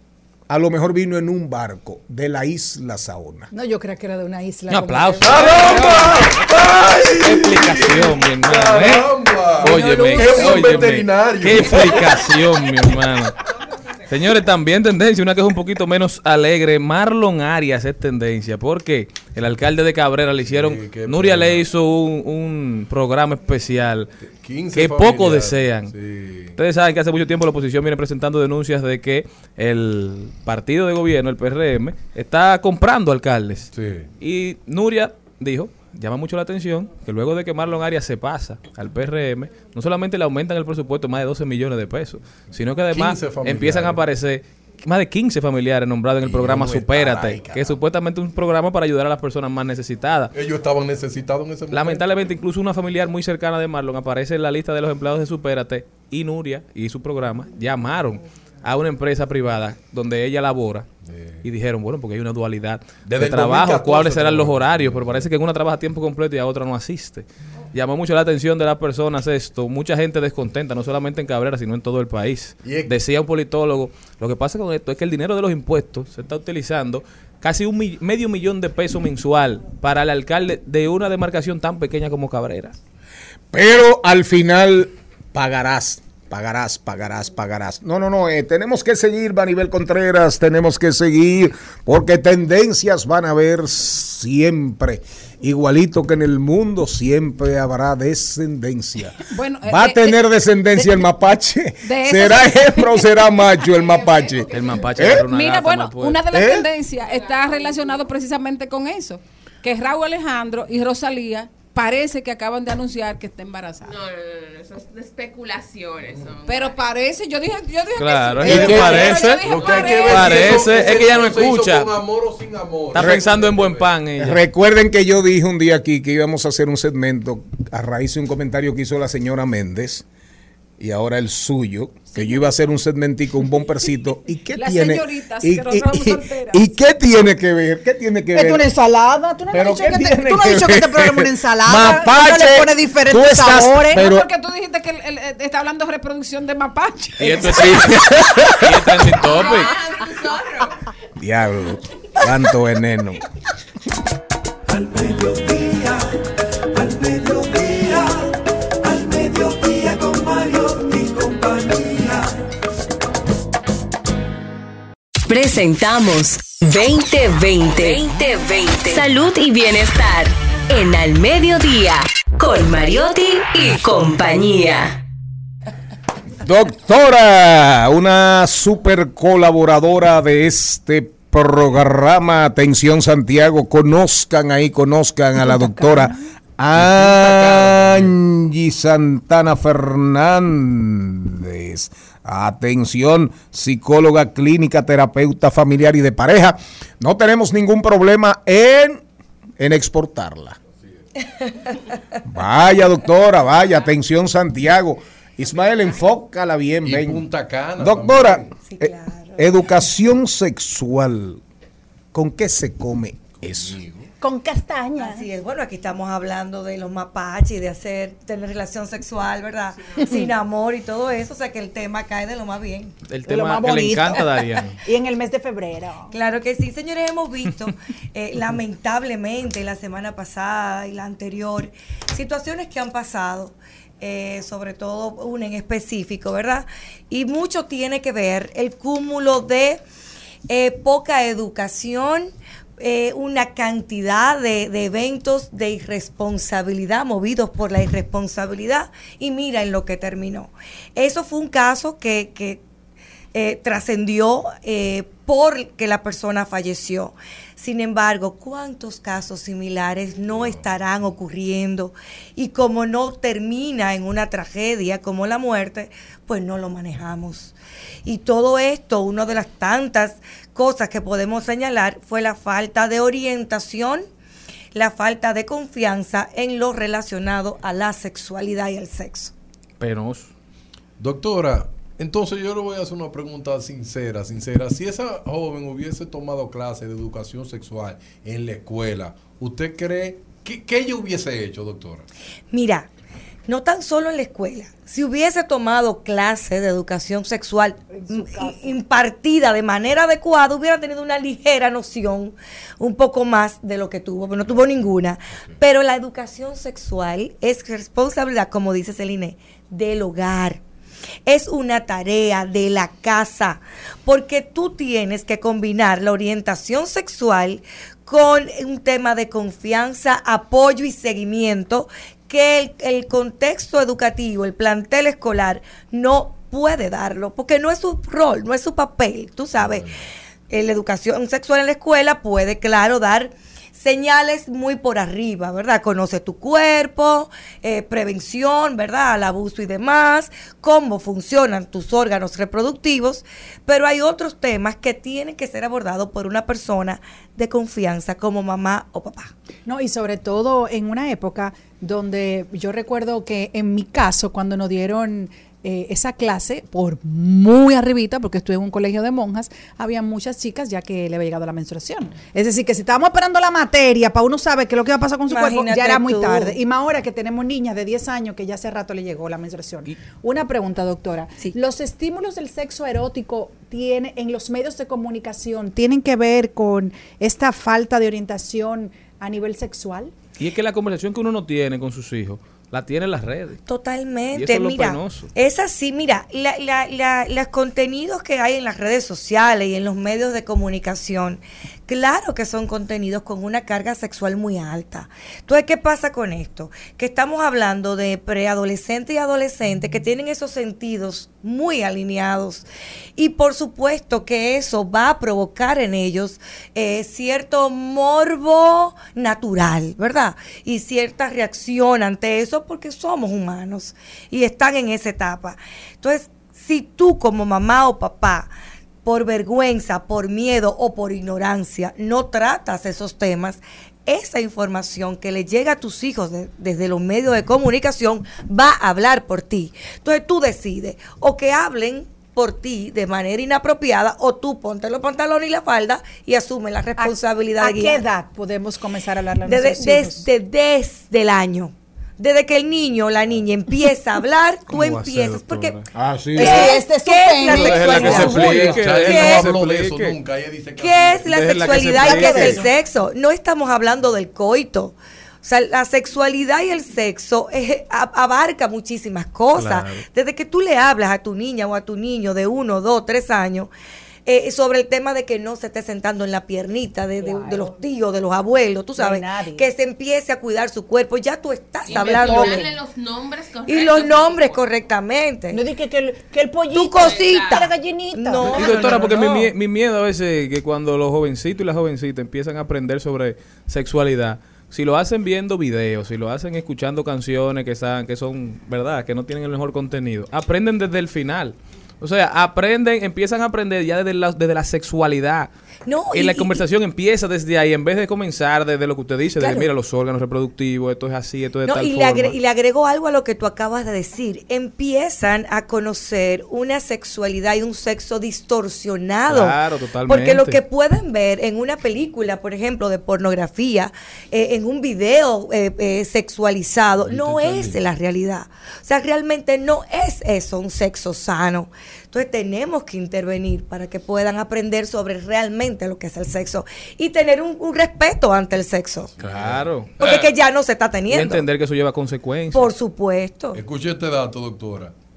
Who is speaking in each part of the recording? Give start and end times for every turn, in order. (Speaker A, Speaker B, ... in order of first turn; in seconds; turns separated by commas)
Speaker A: 0.5-3.5, Speaker B: 3.5-6.0, Speaker C: 4.7-6.5, Speaker D: 5.2-12.3, Speaker C: 7.2-9.1, Speaker C: 9.6-13.3, Speaker E: 9.6-10.8, Speaker C: 14.1-24.1, Speaker D: 20.4-21.6, Speaker D: 24.4-26.6, Speaker C: 24.7-25.9, Speaker C: 26.6-50.3, Speaker D: 33.7-34.1, Speaker D: 42.9-44.0, Speaker D: 46.2-47.8, Speaker D: 50.3-52.0, Speaker C: 51.7-60.9, Speaker D: 61.1-61.4, Speaker C: 61.4-82.8, Speaker D: 63.1-65.2, Speaker D: 72.6-72.9, Speaker A: 83.5-105.3, Speaker F: 99.3-100.2, Speaker F: 100.7-101.0, Speaker F: 101.8-103.1, Speaker F: 103.7-104.4, Speaker C: 104.5-106.2, Speaker F: 105.0-113.9, Speaker A: 106.3-106.7, Speaker G: 113.8-116.8, Speaker F: 116.5-120.6, Speaker C: 118.0-119.4, Speaker A: 118.4-119.1, Speaker D: 118.5-123.9, Speaker G: 119.6-120.1, Speaker C: 120.1-121.9, Speaker C: 122.9-124.4, Speaker A: 123.0-123.3, Speaker A: 124.2-130.0, Speaker A: 130.8-138.6, Speaker F: 134.5-136.6, Speaker B: 138.3-144.1, Speaker A: 139.5-144.3, Speaker F: 143.9-147.9, Speaker C: 147.2-149.7, Speaker A: 147.5-148.9, Speaker G: 149.3-150.7, Speaker A: 151.2-153.2, Speaker H: 154.7-156.1, Speaker H: 156.7-158.3, Speaker H: 158.8-162.3, Speaker I: 165.3-175.0, Speaker A: 176.4-199.0, Speaker B: 185.4-186.2, Speaker D: 186.7-188.1, Speaker A: 199.6-200.6, Speaker A: 202.3-207.2, Speaker D: 206.8-208.5, Speaker A: 207.8-211.4, Speaker E: 208.6-209.4, Speaker A: 212.1-213.8, Speaker D: 213.4-214.1, Speaker B: 214.2-215.2, Speaker E: 215.0-222.9, Speaker C: 223.1-224.8, Speaker B: 223.2-226.1, Speaker E: 226.1-239.8, Speaker E: 240.5-252.6, Speaker E: 253.3-267.5, Speaker E: 268.0-274.1, Speaker E: 274.7-279.3, Speaker C: 279.8-280.3, Speaker D: 281.0-292.1, Speaker E: 292.5-292.9, Speaker E: 293.5-310.6, Speaker B: 297.9-298.7, Speaker E: 311.2-329.9, Speaker D: 329.6-330.0, Speaker E: 330.5-349.3, Speaker B: 349.6-380.1, Speaker E: 365.3-366.6, Speaker C: 380.4-383.6, Speaker E: 383.7-402.6, Speaker C: 384.3-385.3, Speaker E: 403.1-418.5, Speaker E: 419.0-438.0, Speaker B: 437.0-440.2, Speaker E: 439.4-445.8, Speaker C: 444.7-445.9, Speaker A: 445.9-446.7, Speaker B: 446.3-448.6, Speaker E: 446.4-449.4, Speaker C: 447.5-450.1, Speaker D: 448.0-452.6, Speaker E: 450.8-463.7, Speaker C: 451.3-452.6, Speaker C: 459.6-460.0, Speaker E: 464.2-472.7, Speaker B: 467.2-467.7, Speaker B: 469.0-469.6, Speaker G: 471.9-474.8, Speaker B: 471.9-472.6, Speaker E: 473.7-475.6, Speaker B: 475.5-479.1, Speaker E: 476.7-479.5, Speaker G: 476.9-477.6, Speaker C: 478.5-495.5, Speaker E: 495.9-496.6, Speaker C: 496.1-502.3, Speaker E: 499.4-499.7, Speaker E: 501.6-529.1, Speaker C: 509.3-510.6, Speaker D: 517.0-517.8, Speaker D: 529.2-530.3, Speaker C: 529.2-529.9, Speaker E: 530.0-531.4, Speaker C: 531.1-532.7, Speaker E: 532.5-533.6, Speaker D: 533.5-534.9